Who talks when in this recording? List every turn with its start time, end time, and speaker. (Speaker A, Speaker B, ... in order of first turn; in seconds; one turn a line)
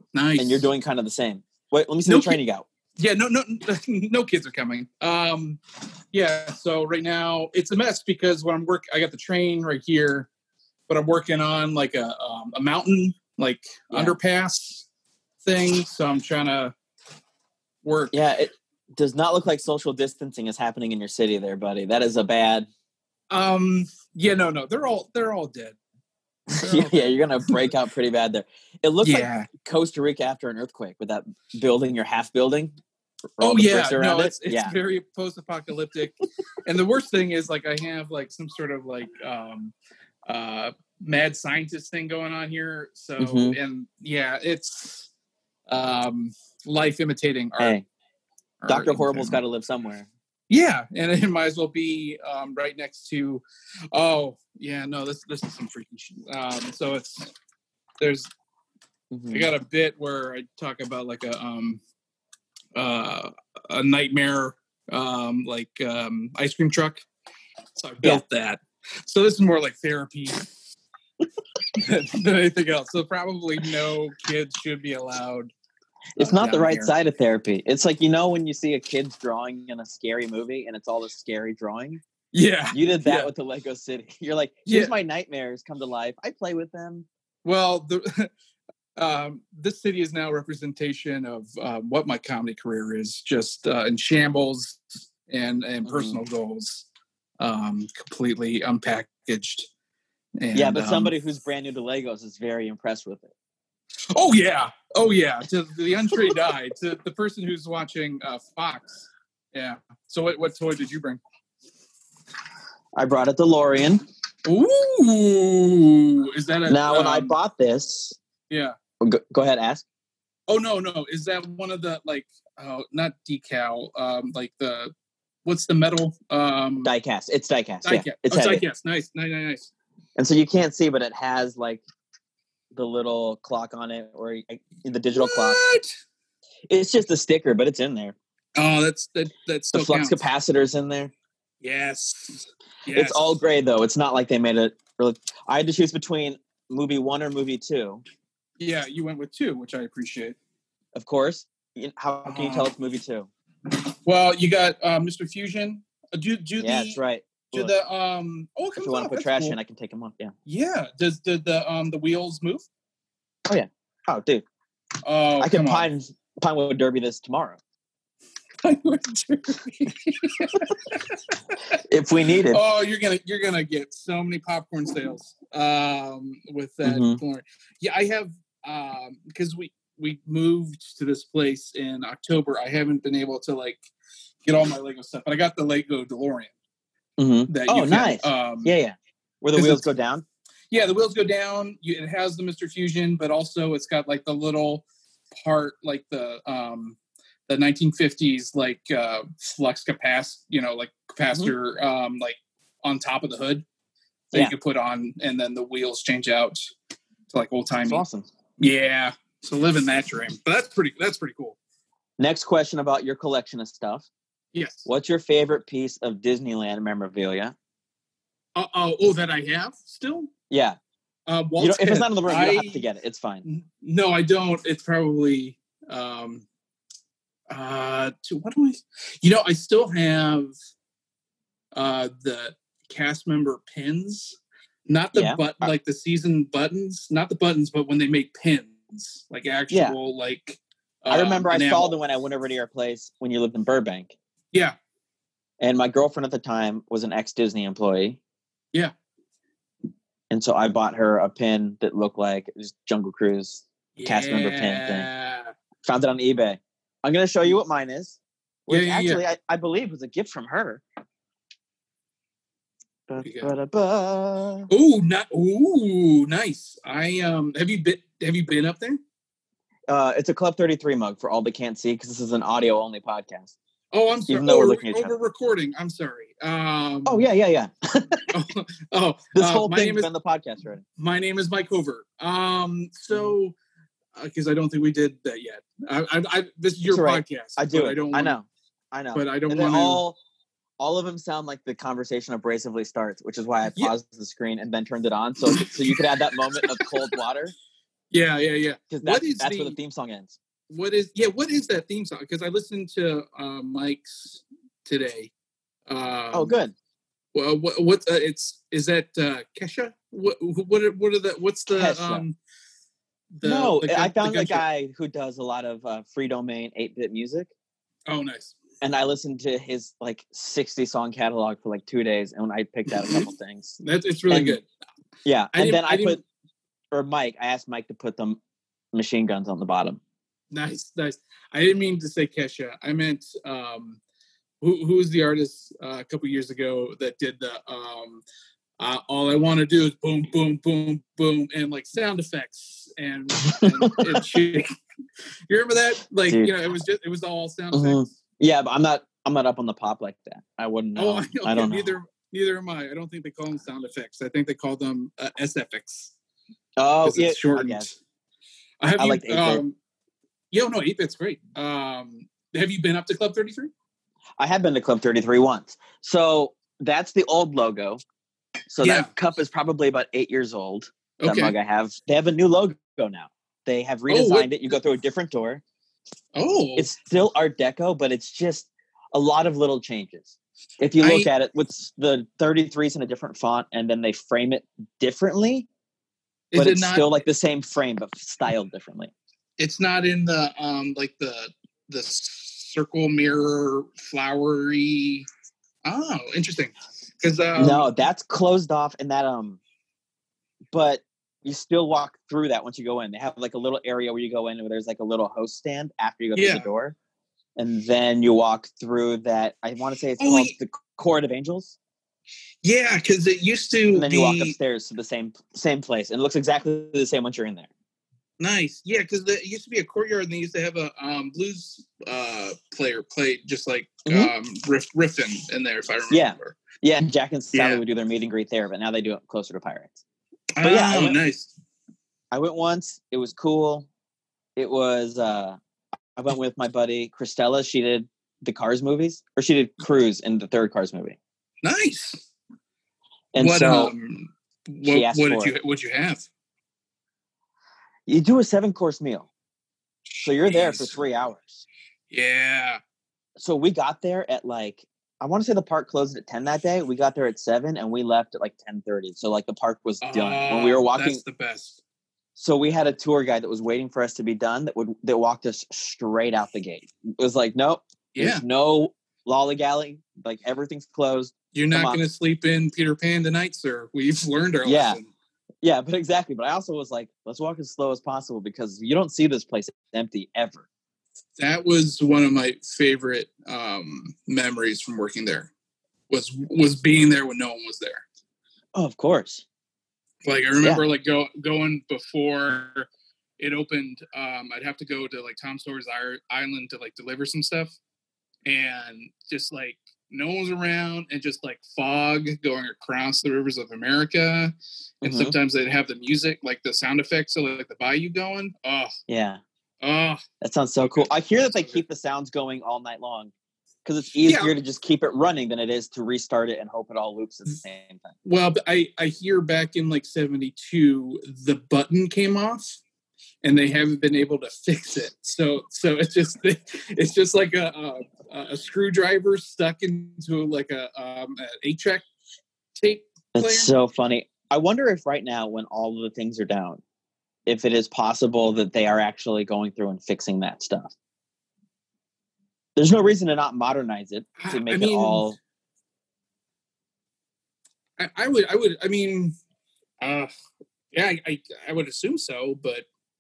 Speaker A: 0.1-0.7
Speaker B: 0.4-2.7
Speaker A: 2.1-2.4
Speaker A: 3.0-5.6
Speaker A: 6.1-10.3
Speaker A: 10.9-14.9
Speaker B: 13.9-14.2
Speaker A: 15.4-16.8
Speaker A: 17.8-18.2
Speaker B: 18.1-22.7
Speaker A: 23.3-25.8
Speaker B: 26.5-32.8
Speaker A: 26.6-27.6
Speaker A: 29.0-29.5
Speaker B: 33.4-34.7
Speaker A: 33.4-39.7
Speaker A: 40.3-45.1
Speaker B: 43.2-43.6
Speaker A: 45.7-47.8
Speaker B: 47.6-47.9
Speaker A: 48.6-49.4
Speaker B: 48.7-50.1
Speaker A: 50.5-57.3
Speaker A: 58.0-58.3
Speaker B: 59.1-59.5
Speaker A: 59.3-61.8
Speaker A: 62.8-67.0
Speaker A: 67.8-70.5
Speaker A: 71.8-75.5
Speaker A: 76.2-77.0
Speaker B: 76.2-82.0
Speaker A: 82.3-83.3
Speaker B: 82.7-87.1
Speaker A: 84.7-84.9
Speaker A: 87.4-88.3
Speaker A: 89.0-96.9
Speaker B: 95.8-96.2
Speaker A: 97.4-99.7
Speaker A: 100.4-101.2
Speaker B: 100.5-103.3
Speaker A: 104.1-111.2
Speaker B: 113.0-114.0
Speaker A: 114.5-117.3
Speaker B: 116.7-118.2
Speaker A: 118.5-118.8
Speaker B: 119.0-119.8
Speaker A: 120.5-124.9
Speaker A: 125.5-126.9
Speaker B: 126.8-128.6
Speaker A: 127.8-129.7
Speaker B: 130.2-131.8
Speaker B: 132.7-135.7
Speaker A: 135.1-135.9
Speaker B: 136.7-138.2
Speaker A: 138.6-140.2
Speaker B: 139.7-141.1
Speaker A: 141.6-143.3
Speaker B: 142.9-148.0
Speaker A: 148.6-150.4
Speaker B: 150.9-153.3
Speaker A: 152.2-152.7
Speaker A: 154.0-157.0
Speaker B: 156.6-157.7
Speaker A: 157.5-159.6
Speaker B: 158.8-160.3
Speaker A: 160.5-162.6
Speaker B: 163.5-164.4
Speaker A: 165.0-165.9
Speaker B: 165.4-167.6
Speaker A: 168.6-171.8
Speaker B: 171.9-172.6
Speaker A: 172.5-183.8
Speaker B: 176.8-177.2
Speaker A: 184.4-186.5
Speaker B: 187.2-190.2
Speaker A: 187.5-188.7
Speaker A: 189.5-189.9
Speaker A: 190.7-194.8
Speaker A: 195.4-203.7
Speaker A: 204.3-206.6
Speaker A: 207.3-208.0
Speaker B: 207.9-208.3
Speaker A: 208.6-211.6
Speaker B: 212.2-214.1
Speaker A: 214.5-214.9
Speaker B: 214.9-217.5
Speaker A: 218.6-220.3
Speaker B: 220.5-220.8
Speaker A: 221.3-222.9
Speaker B: 221.6-223.4
Speaker A: 223.4-226.5
Speaker A: 227.5-230.5
Speaker A: 231.7-242.0
Speaker B: 235.1-235.7
Speaker B: 239.7-240.0
Speaker B: 241.1-244.1
Speaker B: 245.6-248.2
Speaker B: 250.3-255.1
Speaker A: 254.0-255.5
Speaker B: 255.8-260.8
Speaker A: 258.7-259.2
Speaker B: 263.1-264.7
Speaker A: 263.2-263.5
Speaker A: 264.7-269.0
Speaker B: 269.9-273.5
Speaker A: 273.9-277.2
Speaker B: 274.3-275.1
Speaker B: 277.1-278.3
Speaker A: 278.3-280.1
Speaker B: 279.3-280.8
Speaker A: 281.0-283.6
Speaker A: 284.1-288.4
Speaker B: 286.9-290.2
Speaker A: 289.1-290.0
Speaker B: 290.8-297.5
Speaker A: 295.5-297.1
Speaker A: 298.1-299.8
Speaker B: 298.9-300.4
Speaker A: 300.7-305.3
Speaker A: 305.9-306.6
Speaker B: 306.3-306.7
Speaker A: 307.3-312.4
Speaker B: 311.7-312.2
Speaker A: 313.4-314.7
Speaker B: 313.4-317.5
Speaker A: 318.1-318.6
Speaker B: 318.8-323.8
Speaker A: 323.8-324.7
Speaker B: 324.3-324.6
Speaker B: 325.2-326.2
Speaker A: 325.5-326.2
Speaker B: 326.9-328.4
Speaker B: 328.9-330.0
Speaker A: 330.5-334.0
Speaker A: 334.6-338.2
Speaker A: 338.8-344.7
Speaker B: 343.6-343.9
Speaker A: 345.5-348.1
Speaker B: 346.3-346.5
Speaker B: 347.7-352.0
Speaker A: 351.0-356.1
Speaker B: 356.8-357.9
Speaker A: 357.0-358.0
Speaker A: 358.8-359.8
Speaker B: 359.0-359.6
Speaker A: 360.5-363.7
Speaker B: 364.4-368.0
Speaker B: 368.7-375.6
Speaker A: 368.8-369.1
Speaker A: 371.2-371.6
Speaker A: 374.1-374.6
Speaker A: 376.4-376.9
Speaker B: 376.8-385.7
Speaker A: 381.0-381.3
Speaker A: 386.5-387.1
Speaker B: 386.6-389.1
Speaker A: 389.6-395.3
Speaker A: 395.9-397.9
Speaker B: 397.6-399.6
Speaker B: 400.7-407.0
Speaker A: 406.4-406.7
Speaker B: 407.6-411.8
Speaker A: 410.2-410.6
Speaker A: 412.6-414.6
Speaker B: 413.9-417.7
Speaker A: 418.4-426.6
Speaker B: 424.1-424.3
Speaker B: 426.1-430.0
Speaker A: 427.5-427.8
Speaker A: 430.6-431.5
Speaker B: 430.6-431.2
Speaker B: 432.3-433.9
Speaker B: 434.6-435.6
Speaker B: 436.2-441.2
Speaker A: 441.6-442.3
Speaker B: 443.3-443.9
Speaker A: 443.4-446.3
Speaker B: 444.9-445.5
Speaker B: 448.1-449.3
Speaker A: 450.1-451.0
Speaker B: 450.2-451.6
Speaker A: 452.1-452.8
Speaker B: 453.4-461.2
Speaker A: 460.0-461.8
Speaker B: 462.4-472.0
Speaker A: 468.1-468.4
Speaker A: 471.5-475.1
Speaker B: 474.6-475.0
Speaker B: 475.6-480.6
Speaker A: 481.4-485.5
Speaker A: 486.1-488.1
Speaker B: 488.8-489.4
Speaker A: 490.2-492.9
Speaker A: 493.4-497.8
Speaker A: 498.5-508.9
Speaker B: 505.0-505.4
Speaker B: 509.1-509.4
Speaker A: 509.8-510.2
Speaker B: 510.4-513.3
Speaker A: 510.8-511.8
Speaker B: 513.9-518.1
Speaker A: 514.2-514.5
Speaker A: 518.2-522.8
Speaker A: 523.4-532.1
Speaker A: 532.8-533.7
Speaker B: 533.4-536.8
Speaker B: 537.5-540.9
Speaker B: 542.8-545.4
Speaker A: 544.4-545.3
Speaker A: 548.0-549.4
Speaker A: 550.0-550.3
Speaker A: 550.9-552.9